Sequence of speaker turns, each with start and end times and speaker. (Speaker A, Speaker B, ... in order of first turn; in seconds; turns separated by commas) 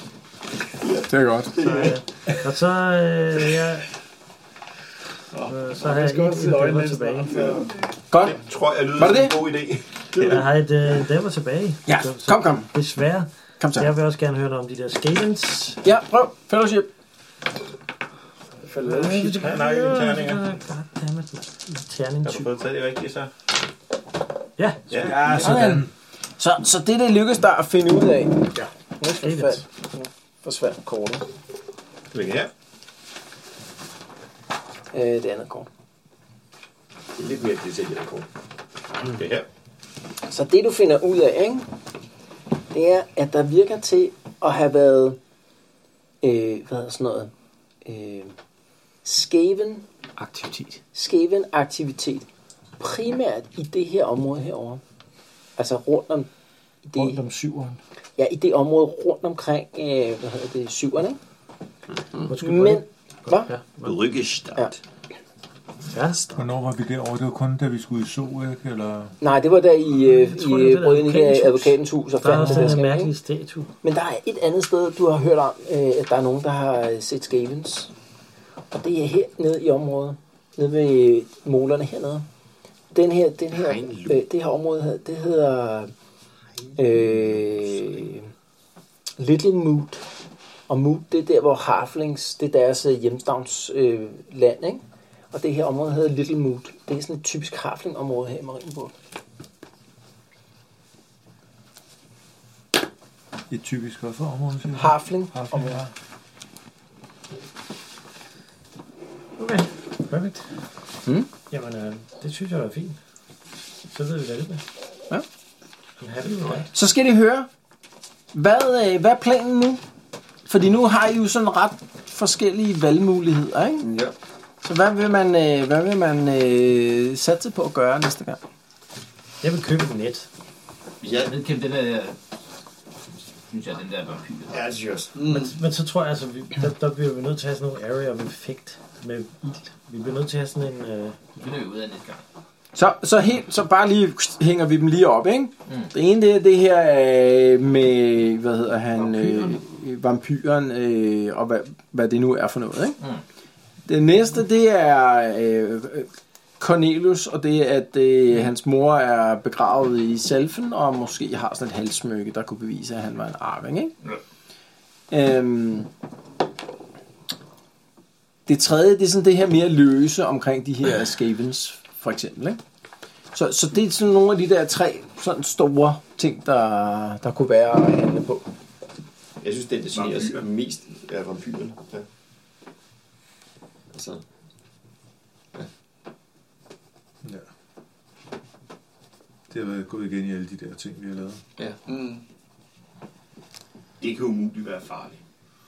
Speaker A: 0.8-2.0, Speaker B: 1.1-1.6, Speaker C: 1.6-3.9, Speaker D: 5.3-7.7, Speaker C: 5.5-7.4, Speaker A: 7.3-7.6, Speaker B: 8.1-8.4, Speaker E: 8.2-10.4, Speaker B: 8.9-9.4, Speaker C: 10.2-15.8, Speaker B: 11.9-12.7, Speaker B: 13.6-13.9, Speaker B: 15.8-16.9, Speaker D: 18.6-19.6, Speaker C: 18.8-22.5, Speaker E: 19.3-20.4, Speaker E: 22.2-23.3, Speaker C: 24.6-25.4, Speaker E: 24.9-25.6, Speaker F: 24.9-25.9, Speaker B: 25.4-31.3, Speaker C: 29.2-29.6, Speaker E: 32.1-32.5, Speaker B: 34.9-35.7, Speaker A: 37.2-38.3, Speaker E: 39.1-39.5, Speaker B: 40.2-41.7, Speaker B: 42.7-45.2, Speaker B: 46.2-47.3, Speaker B: 47.9-48.3, Speaker B: 49.0-49.9, Speaker C: 50.2-50.7, Speaker B: 50.9-52.3, Speaker B: 52.8-54.8, Speaker B: 55.6-56.3, Speaker B: 56.9-57.2, Speaker F: 56.9-57.8, Speaker B: 58.2-61.2, Speaker B: 62.2-63.5, Speaker C: 62.2-64.0, Speaker A: 63.8-64.8, Speaker C: 65.9-66.4, Speaker F: 66.3-69.2, Speaker B: 69.2-73.1, Speaker C: 70.1-73.7, Speaker B: 73.8-77.9, Speaker B: 78.7-82.3, Speaker B: 82.9-85.9, Speaker A: 83.5-84.2, Speaker B: 86.8-88.3, Speaker B: 89.2-90.0, Speaker B: 90.7-98.9, Speaker F: 103.5-105.9, Speaker B: 104.7-105.8, Speaker C: 109.4-110.4, Speaker C: 111.5-113.0, Speaker C: 113.9-114.6, Speaker C: 116.0-116.7, Speaker B: 116.7-117.5, Speaker B: 118.3-119.8, Speaker B: 120.5-123.9, Speaker A: 123.8-124.2, Speaker B: 124.6-128.4, Speaker C: 129.4-130.3, Speaker A: 131.0-131.4, Speaker G: 131.2-132.2, Speaker G: 133.5-134.6, Speaker A: 134.5-135.2, Speaker D: 135.2-135.6, Speaker C: 135.3-141.2, Speaker G: 141.4-142.2, Speaker B: 142.7-153.0, Speaker B: 153.9-163.9, Speaker B: 165.1-165.9, Speaker B: 168.5-172.6, Speaker B: 173.3-178.5, Speaker A: 179.4-182.1, Speaker E: 179.9-180.5, Speaker A: 183.9-184.2, Speaker F: 189.5-191.4, Speaker D: 191.9-192.2, Speaker E: 194.0-195.2